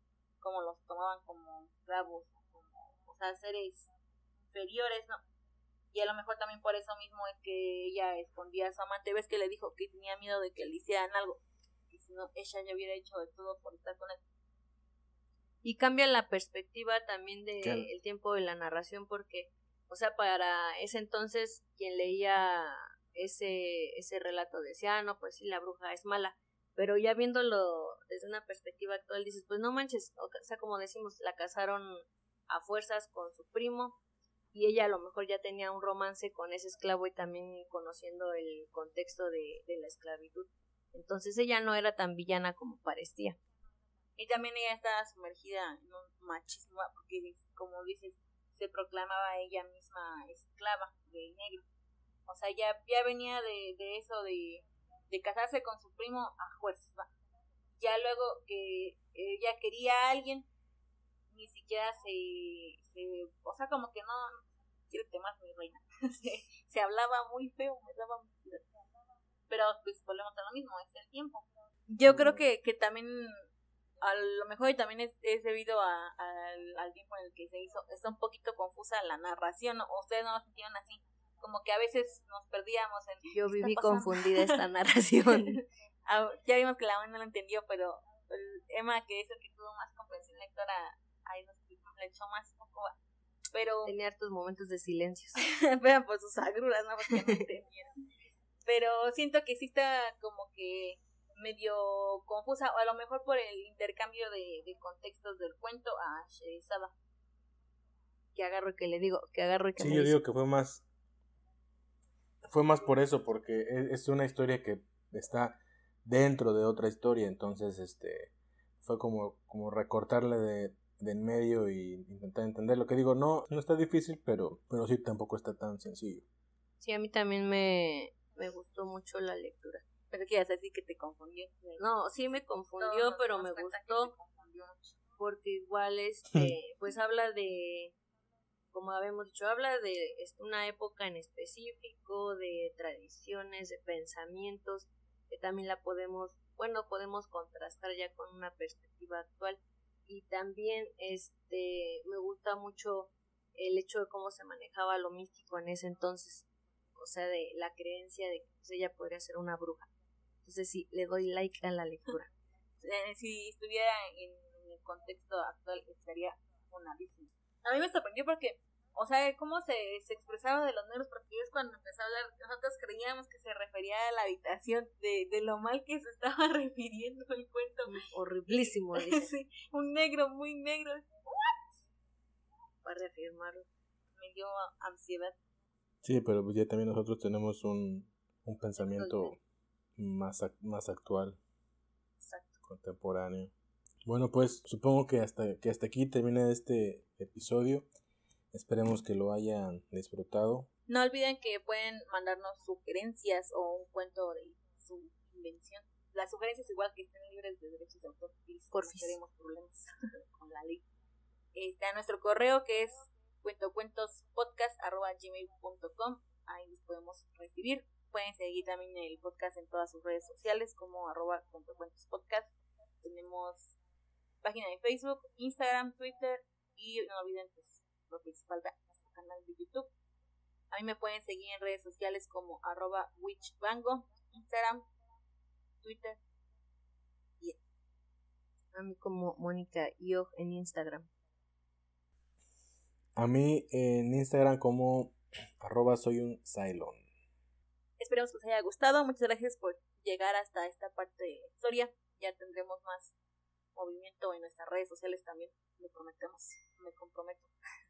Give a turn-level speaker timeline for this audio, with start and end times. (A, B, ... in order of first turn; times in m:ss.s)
0:00.4-0:03.9 A
0:04.5-0:05.2 A
0:05.9-0:11.4 A
0:11.9-0:14.2 A
0:15.6-0:34.0 B
0:17.6-0:17.9 C
0:34.5-0:43.4 B
0:44.2-0:51.6 A
0:52.3-0:57.1 A
0:57.8-1:00.5 A
1:01.3-1:08.6 A
1:09.5-1:13.5 A
1:12.1-1:12.4 C
1:14.0-1:24.6 A
1:23.3-1:25.6 B
1:25.5-1:32.9 A
1:33.5-1:34.0 A
1:33.8-1:35.4 B
1:35.4-1:37.9 A
1:37.1-1:37.4 B
1:38.6-1:46.9 A
1:48.4-1:50.2 B
1:49.8-1:50.8 C
1:52.5-1:58.3 C
1:58.8-2:06.2 C
2:06.8-2:09.8 B
2:10.1-2:11.8 A
2:11.8-2:14.1 B
2:12.8-2:15.0 A
2:15.2-2:17.9 B
2:18.7-2:36.5 B
2:37.0-2:39.9 B
2:40.4-2:42.3 B
2:42.8-3:01.8 A
2:57.9-2:59.3 B
3:02.8-3:03.7 B
3:04.2-3:05.3 A
3:06.0-3:09.4 C
3:08.8-3:09.3 B
3:10.0-3:11.4 C
3:12.7-3:13.5 C
3:14.0-3:17.9 C
3:18.5-3:20.7 C
3:20.9-3:30.8 A
3:28.7-3:29.2 B
3:31.5-3:43.7 A
3:44.4-3:49.9 A
3:50.7-3:54.8 A
3:55.8-3:56.2 A
3:58.7-4:01.1 B
4:03.2-4:07.0 C
4:08.0-4:13.1 A
4:13.8-4:17.5 A